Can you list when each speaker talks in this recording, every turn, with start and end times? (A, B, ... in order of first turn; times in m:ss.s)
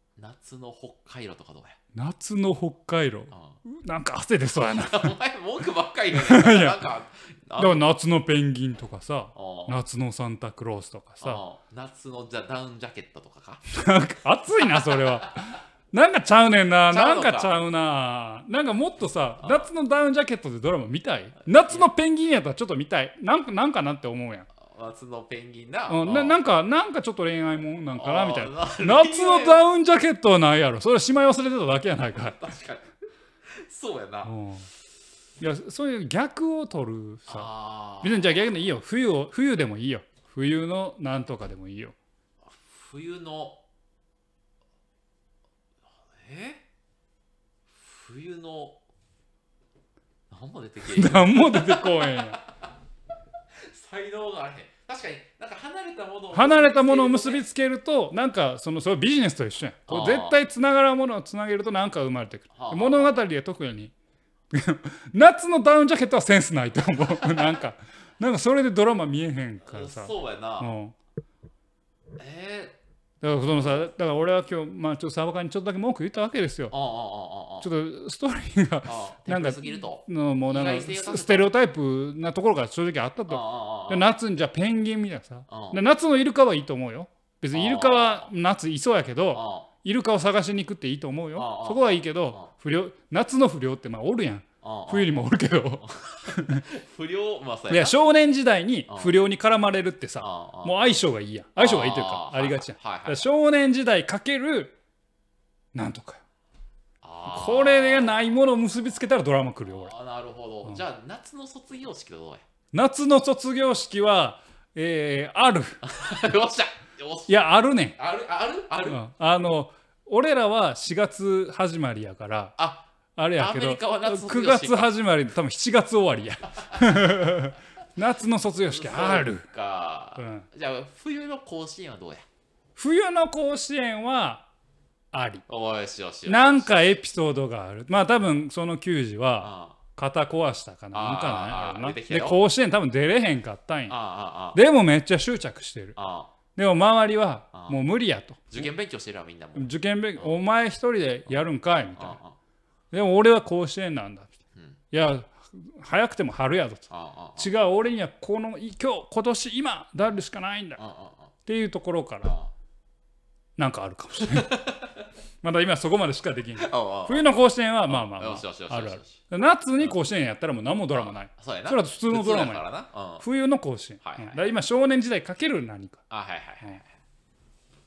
0:00.2-0:01.8 A
0:01.9-0:05.2 B
0:03.3-0:03.6 A
0:04.6-0:07.9 A
0:06.1-0:06.8 B
0:07.6-0:11.4 B
0:09.3-0:09.8 A
0:11.2-0:13.6 A
0:13.7-0:24.5 B
0:14.5-0:15.4 A
0:16.9-0:17.5 A
0:19.4-0:19.7 A
0:21.4-0:21.9 A
0:24.6-0:26.4 A
0:25.9-0:32.5 B
0:27.9-0:29.6 A
0:32.0-0:32.9 A
0:33.4-0:34.3 A
0:34.2-0:34.7 B
0:35.4-0:41.9 B
0:37.3-0:38.3 A
0:42.4-0:43.6 A
0:45.9-0:46.6 A
0:47.7-0:48.8 A
0:50.3-0:52.7 A
0:50.8-0:52.4 B
0:53.5-0:57.4 A
0:56.3-1:03.9 B
0:59.9-1:00.4 A
1:02.5-1:03.2 A
1:04.5-1:11.0 B
1:07.1-1:07.6 A
1:09.6-1:10.7 A
1:12.2-1:12.8 A
1:13.2-1:16.7 B
1:13.4-1:13.9 A
1:16.7-1:17.7 A
1:17.6-1:36.6 B
1:18.8-1:21.5 A
1:23.3-1:24.1 A
1:25.5-1:25.8 A
1:27.5-1:28.3 A
1:29.3-1:29.7 A
1:31.3-1:32.5 A
1:34.6-1:35.2 A
1:35.8-1:38.0 A
1:37.7-1:44.8 B
1:38.9-1:39.2 A
1:40.2-1:40.8 A
1:41.6-1:43.3 A
1:45.7-1:46.2 B
1:47.0-1:48.2 A
1:47.2-1:49.9 B
1:49.7-1:52.4 A
1:52.7-1:55.8 B
1:55.8-1:59.0 A
1:57.3-1:58.0 B
1:58.8-2:02.6 B
2:02.6-2:04.9 A
2:03.1-2:09.5 B
2:06.6-2:07.2 A
2:08.6-2:12.3 A
2:10.2-2:10.5 B
2:12.8-2:14.5 B
2:15.1-2:15.4 B
2:15.5-2:17.0 A
2:16.2-2:24.0 B
2:19.4-2:19.8 A
2:20.9-2:22.4 A
2:23.9-2:24.6 A
2:24.5-2:26.0 B
2:26.0-2:26.3 A
2:26.5-2:28.7 B
2:27.5-2:27.8 A
2:28.5-2:30.4 A
2:29.5-2:32.2 B
2:31.9-2:32.4 A
2:32.9-2:34.3 B
2:34.9-2:40.8 B
2:36.9-2:37.5 A
2:40.8-2:41.3 A
2:41.4-2:42.3 B
2:42.2-2:42.5 A
2:43.6-2:44.5 B
2:44.2-2:45.0 A
2:45.4-2:52.6 B
2:46.6-2:47.3 A
2:47.9-2:49.2 A
2:50.9-2:53.2 A
2:53.2-2:56.0 B
2:54.0-2:54.5 A
2:56.1-2:56.9 A